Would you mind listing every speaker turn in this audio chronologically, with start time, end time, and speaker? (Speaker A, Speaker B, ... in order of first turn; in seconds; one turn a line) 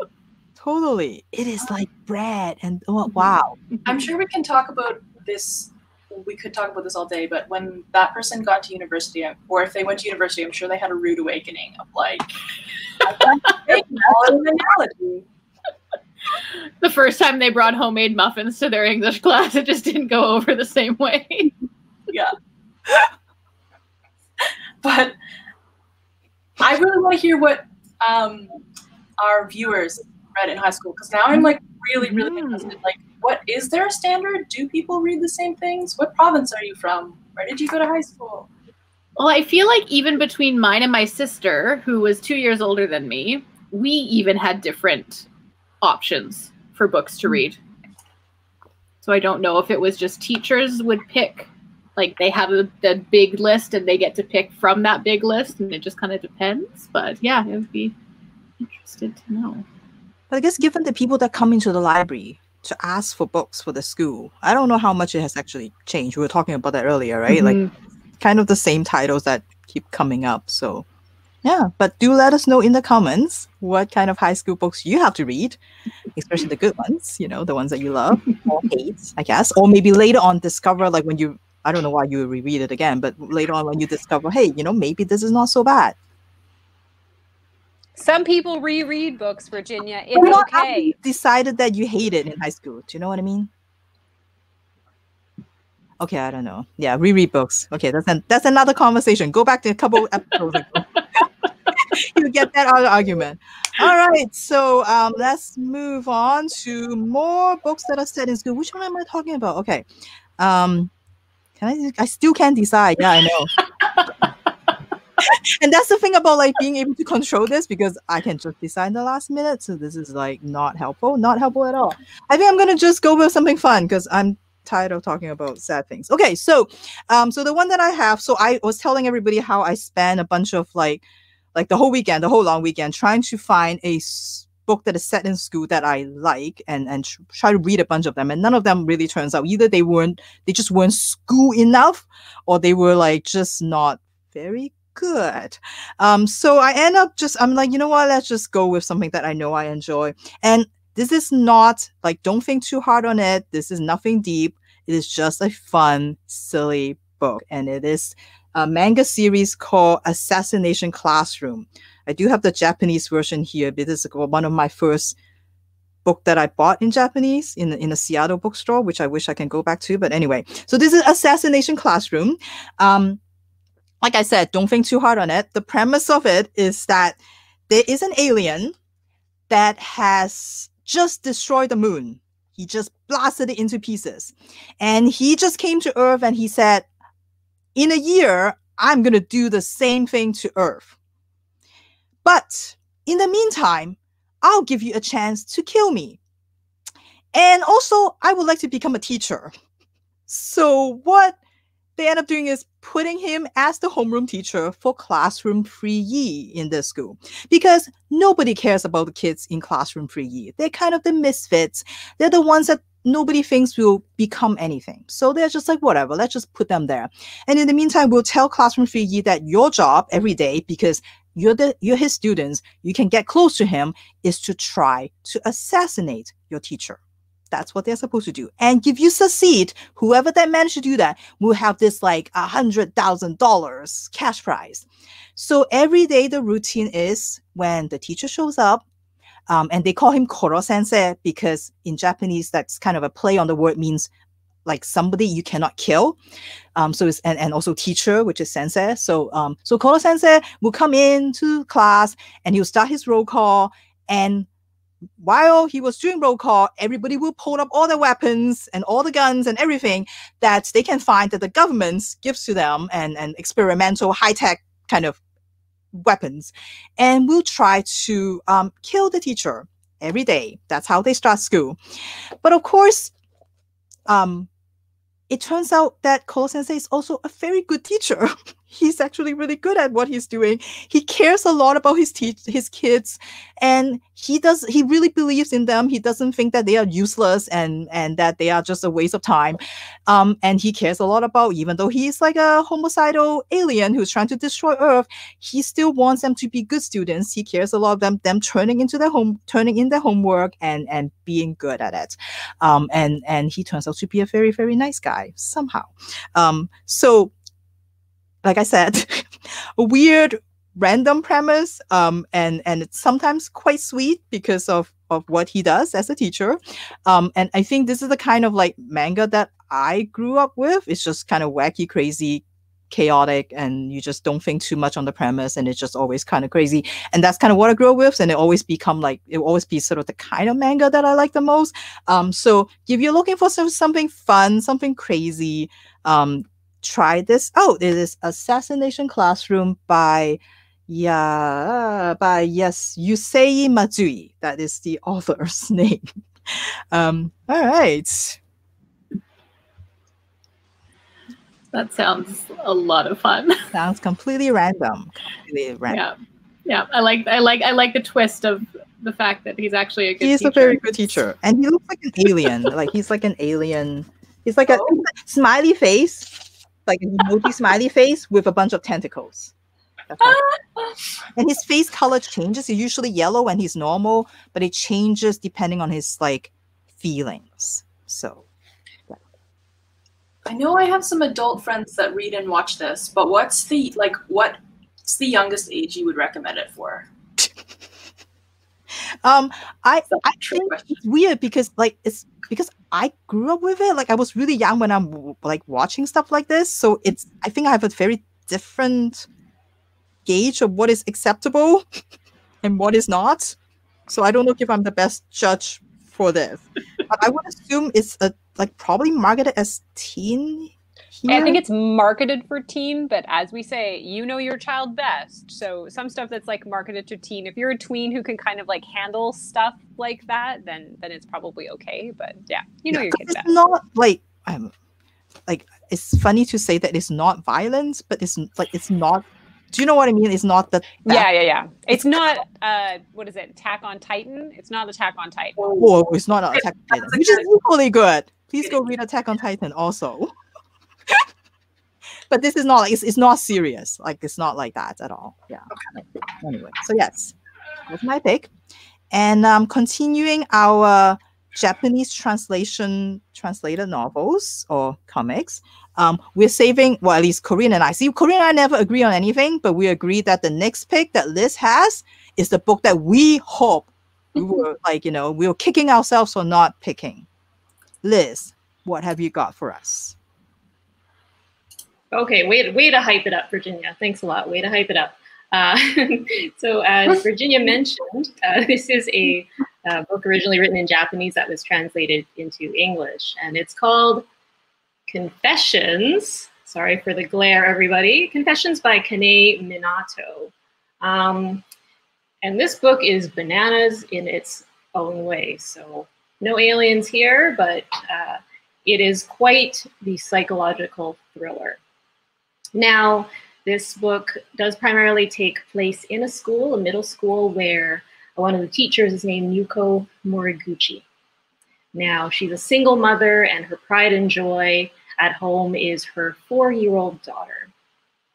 Speaker A: 0.6-3.6
Speaker B: 3.9-12.3
Speaker B: 13.0-15.2
Speaker C: 16.8-21.5
Speaker B: 22.1-22.3
Speaker B: 24.8-25.1
Speaker B: 26.6-28.6
Speaker B: 29.2-38.5
Speaker C: 32.0-32.7
Speaker C: 39.2-45.3
Speaker C: 45.8-47.6
Speaker C: 49.0-57.9
Speaker C: 58.6-59.6
Speaker A: 60.3-67.6
Speaker C: 67.3-67.7
Speaker A: 68.2-70.8
Speaker A: 71.4-75.6
Speaker A: 76.1-86.0
Speaker D: 88.0-90.9
Speaker A: 90.1-93.5
Speaker A: 96.0-101.2
Speaker A: 101.8-109.8
Speaker A: 110.4-110.9
Speaker A: 111.6-113.5
Speaker A: 115.2-165.2
Speaker A: 166.0-173.2
Speaker A: 174.0-178.7
Speaker A: 179.5-186.9
Speaker A: 187.7-190.9
Speaker A: 192.2-196.2
Speaker A: 197.3-199.5
Speaker A: 200.3-201.4
Speaker A: 202.0-238.8
Speaker A: 239.5-244.1
Speaker A: 244.7-246.2
Speaker A: 246.8-254.5
Speaker A: 255.2-265.2
Speaker A: 265.9-271.8
Speaker A: 272.4-273.1
Speaker A: 274.1-274.5
Speaker A: 275.3-307.3
Speaker A: 308.4-348.4
Speaker C: 351.7-353.6
Speaker A: 353.7-356.0
Speaker C: 355.9-356.1
Speaker C: 356.6-360.8
Speaker A: 360.2-369.5
Speaker A: 370.1-370.4
Speaker A: 371.4-378.4
Speaker B: 380.4-387.1
Speaker A: 389.2-399.3
Speaker B: 390.2-390.9
Speaker A: 400.2-401.9
Speaker A: 402.6-403.6
Speaker A: 404.1-411.6
Speaker D: 411.3-423.5
Speaker A: 422.9-424.7
Speaker A: 425.5-431.3
Speaker D: 431.0-435.6
Speaker A: 431.9-432.2
Speaker A: 435.8-440.3
Speaker A: 442.3-447.3
Speaker A: 447.9-448.5
Speaker A: 449.1-467.2
Speaker A: 468.0-470.1
Speaker E: 472.1-484.2
Speaker E: 485.1-491.6
Speaker E: 492.4-501.8
Speaker E: 502.7-511.0
Speaker E: 511.9-517.7